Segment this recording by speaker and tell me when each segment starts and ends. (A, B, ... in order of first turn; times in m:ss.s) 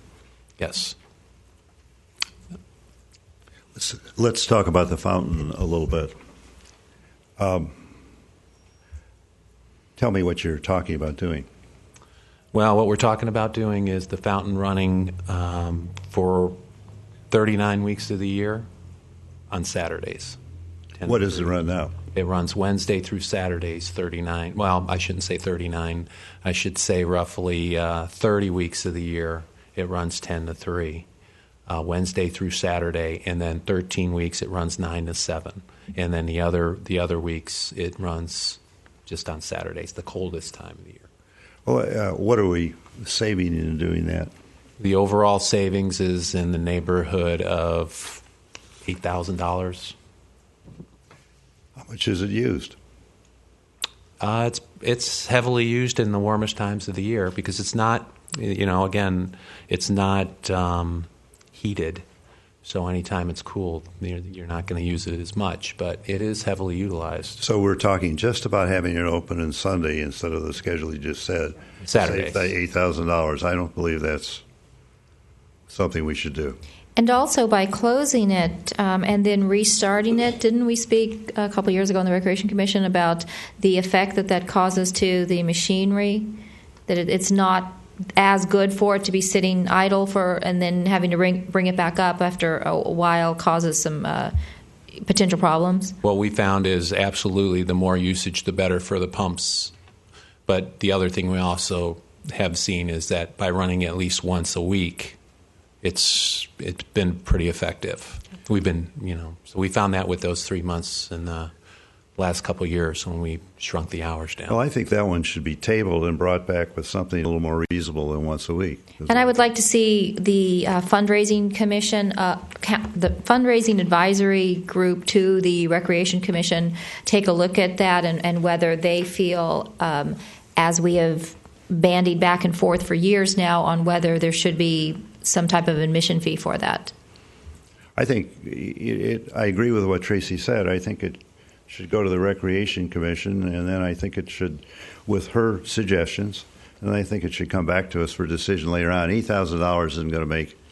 0:00.6-0:01.0 A
0:03.8-0:06.1 B
0:07.4-0:07.8 B
0:10.0-0:11.5 B
0:12.5-0:16.6 A
0:17.3-0:18.7 A
0:19.5-0:20.4 A
0:21.0-0:21.5 A
0:21.0-0:22.0 B
0:22.1-0:31.0 A
0:31.7-0:41.1 A
0:41.7-0:44.3 B
0:44.8-0:48.2 A
0:48.8-0:49.9 A
0:51.8-0:52.8 B
0:54.2-1:02.0 A
1:02.6-1:07.4 A
1:07.4-1:14.4 B
1:11.8-1:12.5 A
1:15.7-1:16.6 B
1:17.0-1:26.3 C
1:26.9-1:34.3 C
1:35.0-1:36.0 C
1:36.0-1:39.7 A
1:40.5-1:45.2 A
1:45.8-1:51.5 A
1:52.2-1:54.6 A
1:54.5-1:59.4 B
1:59.1-2:16.9 C
2:18.0-2:30.6 B